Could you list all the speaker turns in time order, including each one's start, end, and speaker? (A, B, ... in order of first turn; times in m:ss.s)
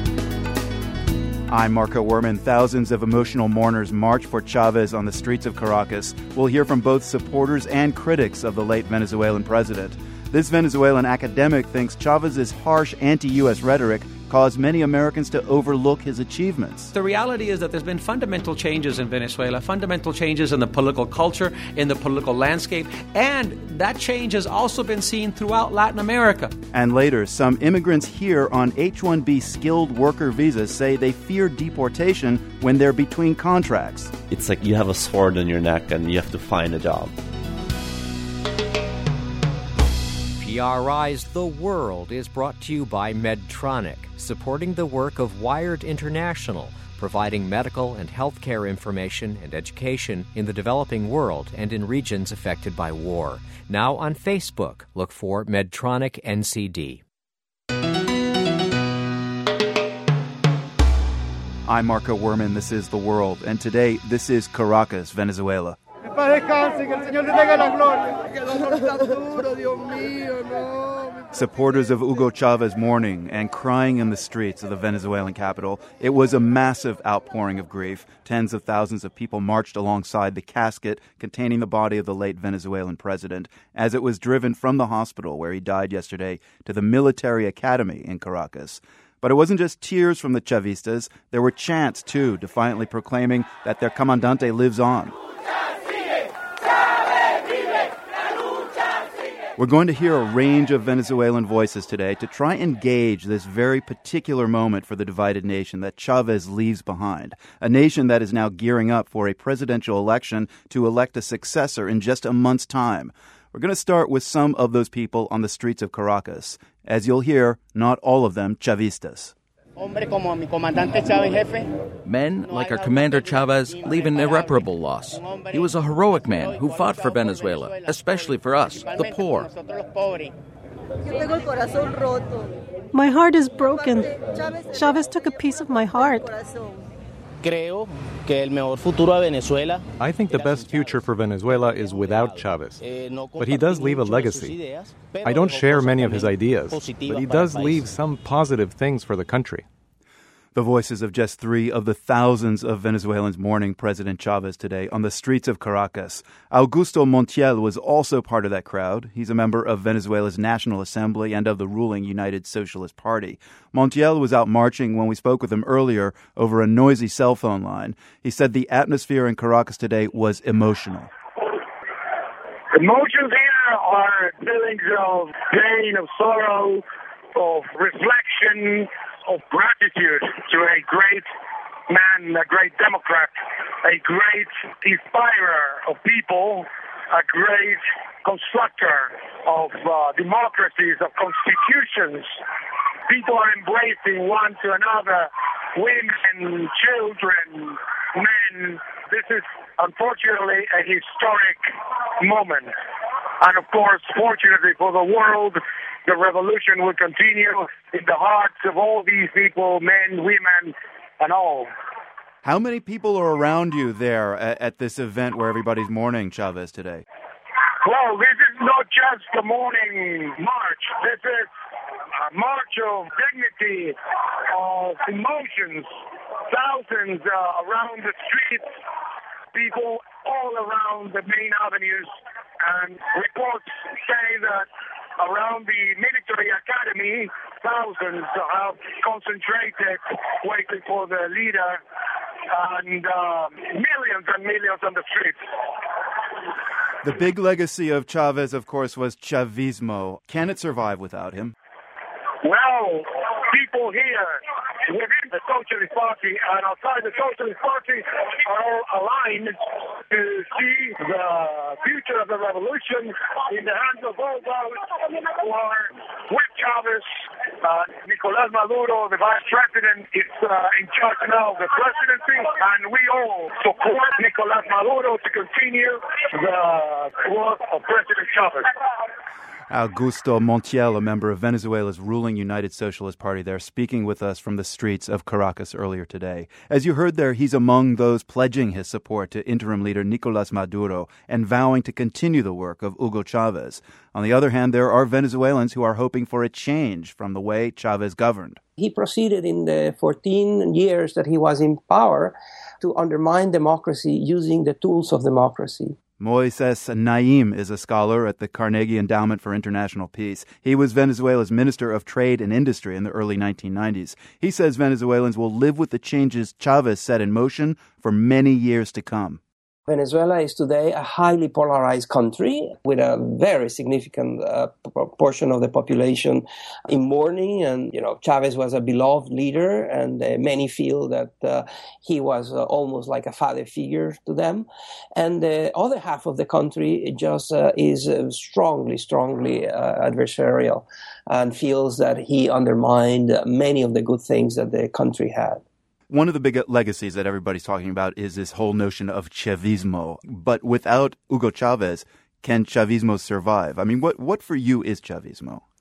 0:01.5-0:16.9 A
0:16.9-0:26.5 B
0:26.7-0:34.1 A
0:34.3-0:37.2 C
0:40.3-0:57.0 D
1:01.6-1:05.8 A
1:11.3-1:35.2 A
1:39.6-1:59.3 A
2:02.0-2:09.5 E
2:12.9-2:16.3 F
2:20.0-2:22.8 G
2:23.4-2:24.6 G
2:25.2-2:29.6 G
2:30.5-2:51.1 A
2:52.7-2:56.8 H
2:57.3-3:01.3 H
3:01.9-3:12.4 H
3:13.1-3:21.6 H
3:22.2-3:22.7 H
3:23.4-3:31.7 H
3:32.4-3:37.0 A
3:37.8-3:41.5 H
3:42.2-3:48.7 H
3:49.5-4:01.8 H
4:02.5-4:05.4 H
4:07.0-4:11.5 A
4:12.4-4:27.1 H
4:27.6-4:38.7 H
4:39.7-4:58.6 A
4:58.8-5:05.9 I
5:06.2-5:19.4 A
5:19.9-5:45.6 I
5:46.1-5:55.6 A